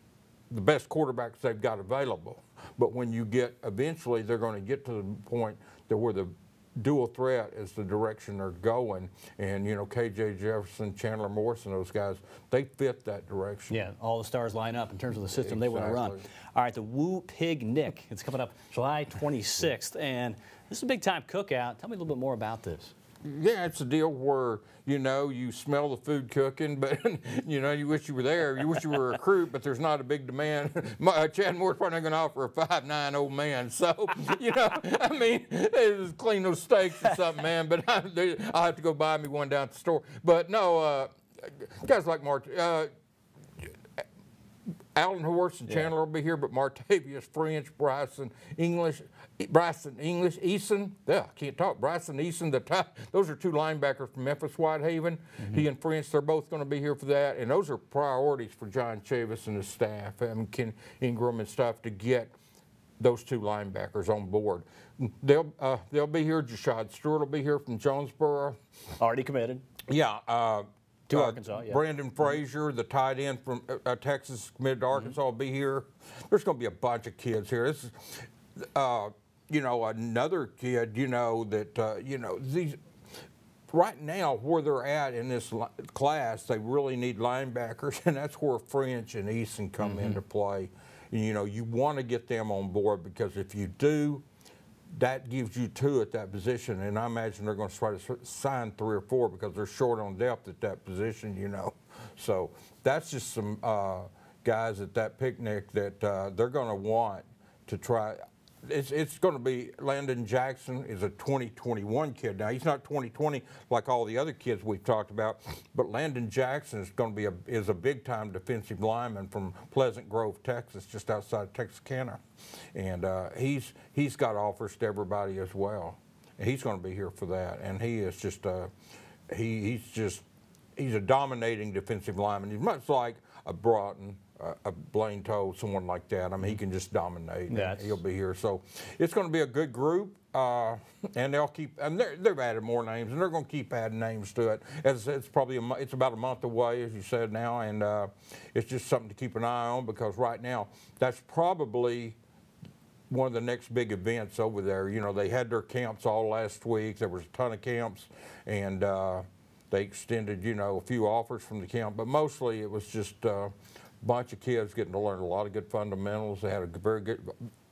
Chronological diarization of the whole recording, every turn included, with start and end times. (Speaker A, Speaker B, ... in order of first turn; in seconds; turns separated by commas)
Speaker A: 0.5-13.8, Speaker B: 13.7-22.9, Speaker A: 15.3-16.2, Speaker A: 23.2-42.9, Speaker A: 44.9-62.3, Speaker A: 63.0-68.5, Speaker B: 69.0-69.6, Speaker A: 69.9-82.8, Speaker B: 71.1-72.3, Speaker A: 83.7-94.2, Speaker B: 89.8-90.2, Speaker A: 95.0-122.2, Speaker A: 122.7-128.7, Speaker A: 129.3-130.2, Speaker A: 130.8-152.2, Speaker B: 137.5-138.0, Speaker A: 153.1-167.3